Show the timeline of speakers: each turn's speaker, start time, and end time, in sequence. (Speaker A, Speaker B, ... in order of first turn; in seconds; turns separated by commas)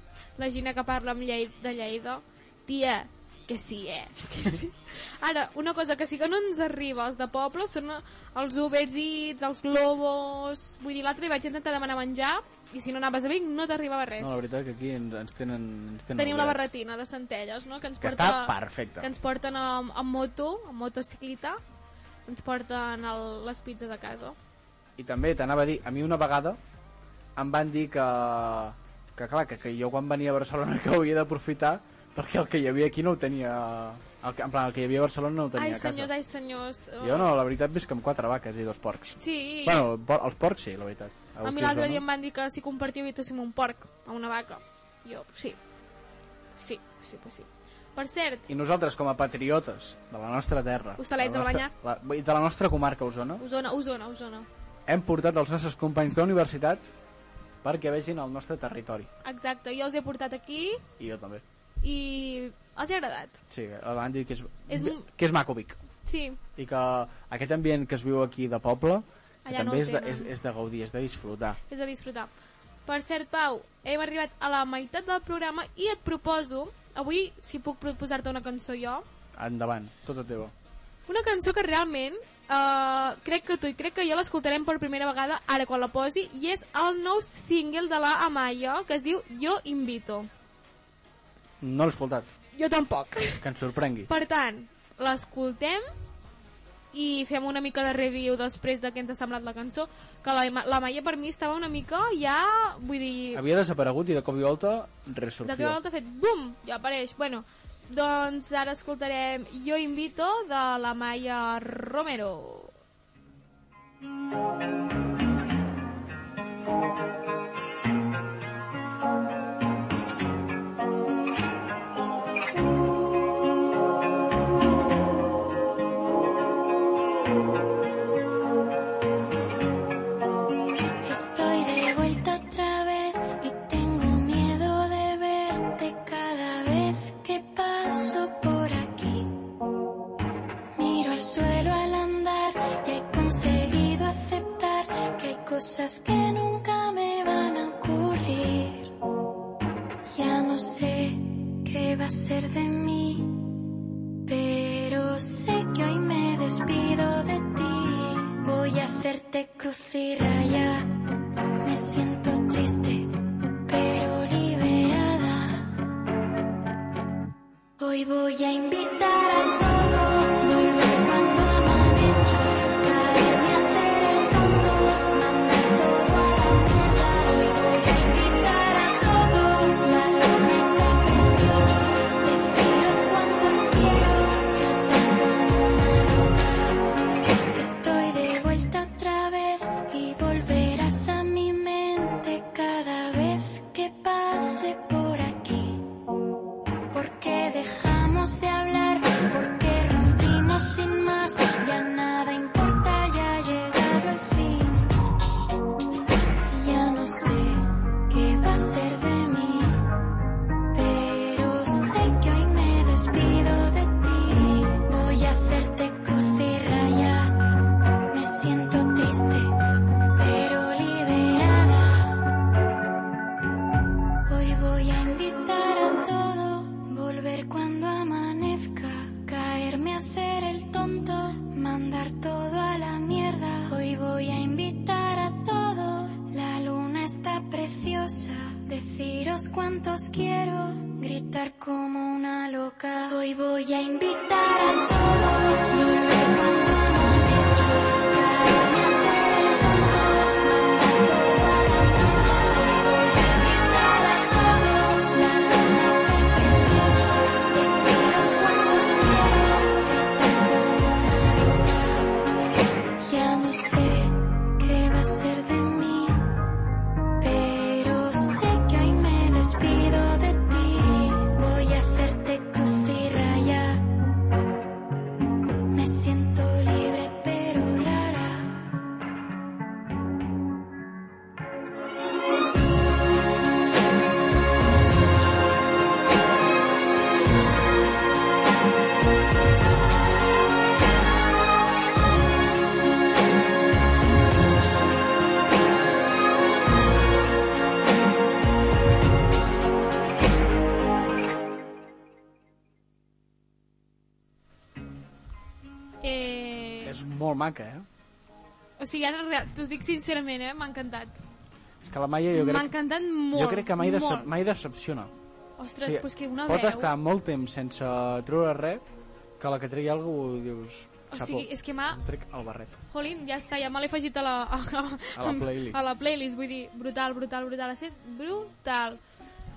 Speaker A: 0.4-14.4, Speaker B: 14.2-16.6, Speaker A: 16.1-21.6, Speaker B: 18.0-19.1, Speaker A: 22.3-24.4, Speaker B: 25.0-26.6, Speaker B: 27.4-36.1, Speaker A: 35.5-37.3, Speaker B: 37.0-42.0, Speaker A: 39.2-39.9, Speaker A: 41.4-45.6, Speaker A: 46.6-48.5, Speaker B: 48.5-53.4, Speaker A: 51.0-51.7, Speaker A: 53.4-54.5, Speaker B: 54.9-56.8, Speaker B: 57.6-59.1, Speaker A: 59.2-60.8, Speaker B: 61.0-61.4, Speaker A: 61.8-63.4, Speaker B: 63.5-65.8, Speaker A: 64.7-65.0, Speaker A: 66.0-66.4, Speaker B: 66.5-71.6, Speaker A: 69.4-70.3, Speaker A: 71.7-72.3, Speaker A: 72.8-79.0, Speaker B: 79.3-80.5, Speaker A: 81.1-90.3, Speaker B: 91.6-92.3, Speaker A: 92.5-93.4, Speaker B: 93.4-94.1, Speaker A: 94.1-95.9, Speaker A: 96.9-103.4, Speaker B: 103.3-105.8, Speaker A: 105.4-112.7, Speaker C: 131.0-139.5, Speaker C: 140.7-148.9, Speaker C: 150.1-153.6, Speaker C: 154.2-161.0, Speaker C: 161.6-165.8, Speaker C: 167.8-186.8, Speaker C: 187.5-195.9, Speaker C: 196.9-205.0, Speaker C: 206.5-210.0, Speaker C: 210.7-217.4, Speaker C: 218.1-219.5, Speaker C: 220.1-222.3, Speaker C: 224.2-262.0, Speaker C: 263.0-266.4, Speaker C: 267.2-273.9, Speaker C: 275.7-278.6, Speaker A: 306.0-307.0, Speaker B: 306.8-307.9, Speaker A: 308.8-311.2, Speaker B: 311.9-312.7, Speaker A: 312.3-314.3, Speaker B: 313.3-315.1, Speaker A: 315.6-316.9, Speaker B: 315.8-318.8, Speaker B: 319.4-322.8, Speaker A: 321.1-322.0, Speaker A: 322.9-329.0, Speaker B: 325.1-325.8